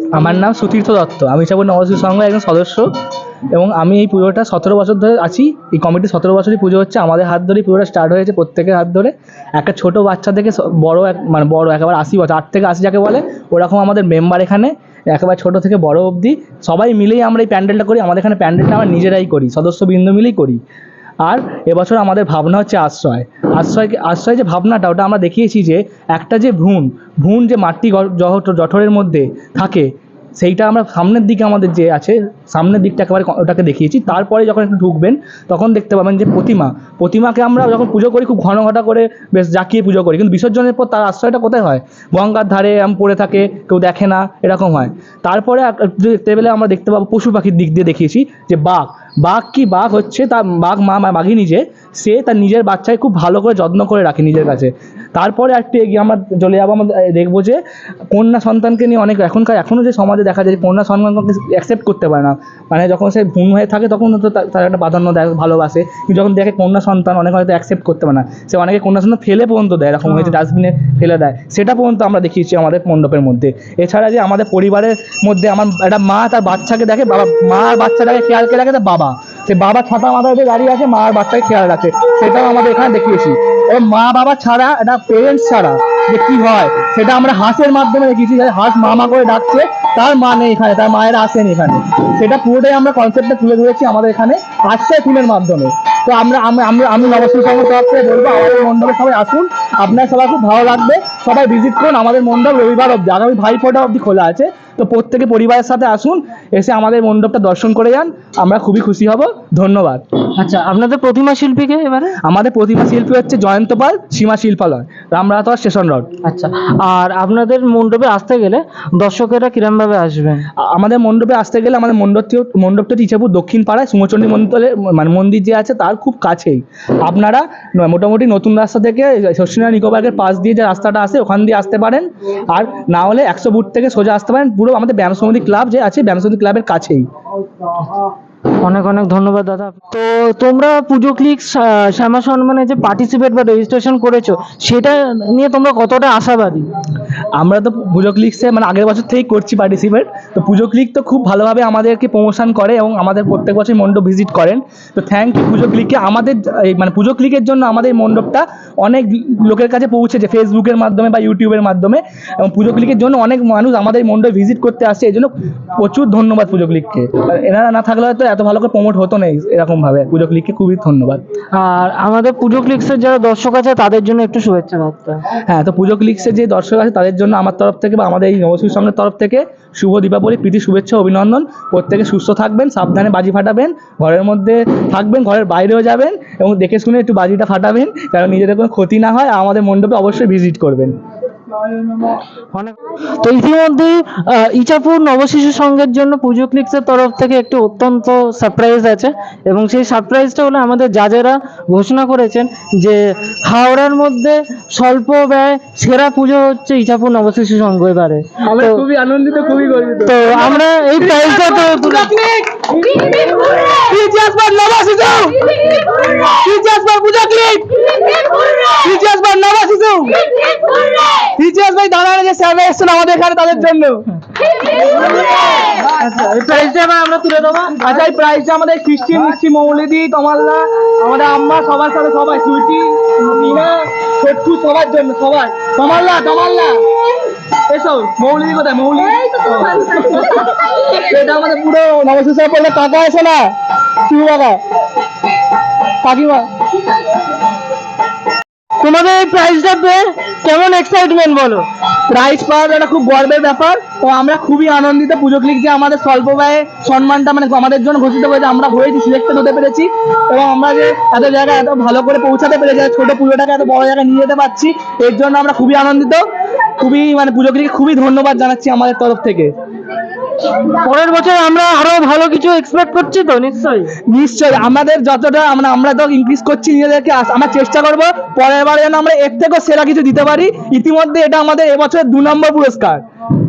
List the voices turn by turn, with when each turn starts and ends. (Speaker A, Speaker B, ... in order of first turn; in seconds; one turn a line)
Speaker A: 0.1-2.9
Speaker A: 3.5-20.6
Speaker A: 21.2-57.6
Speaker A: 58.1-110.0
Speaker B: 70.0-70.3
Speaker B: 110.4-112.2
Speaker A: 112.2-116.1
Speaker B: 116.2-120.5
Speaker A: 120.6-137.0
Speaker B: 138.6-146.7
Speaker A: 147.3-171.2
Speaker B: 171.5-175.2
Speaker A: 175.3-190.9
Speaker B: 192.5-208.8
Speaker A: 208.4-224.0
Speaker B: 210.0-212.1
Speaker A: 224.9-225.8
Speaker B: 225.1-227.9
Speaker A: 227.8-236.8
Speaker A: 237.7-243.5
Speaker A: 244.1-244.6
Speaker A: 246.0-246.5
Speaker B: 248.8-251.7
Speaker A: 252.1-266.2
Speaker A: 266.8-269.5
Speaker B: 270.6-273.9
Speaker A: 274.1-283.0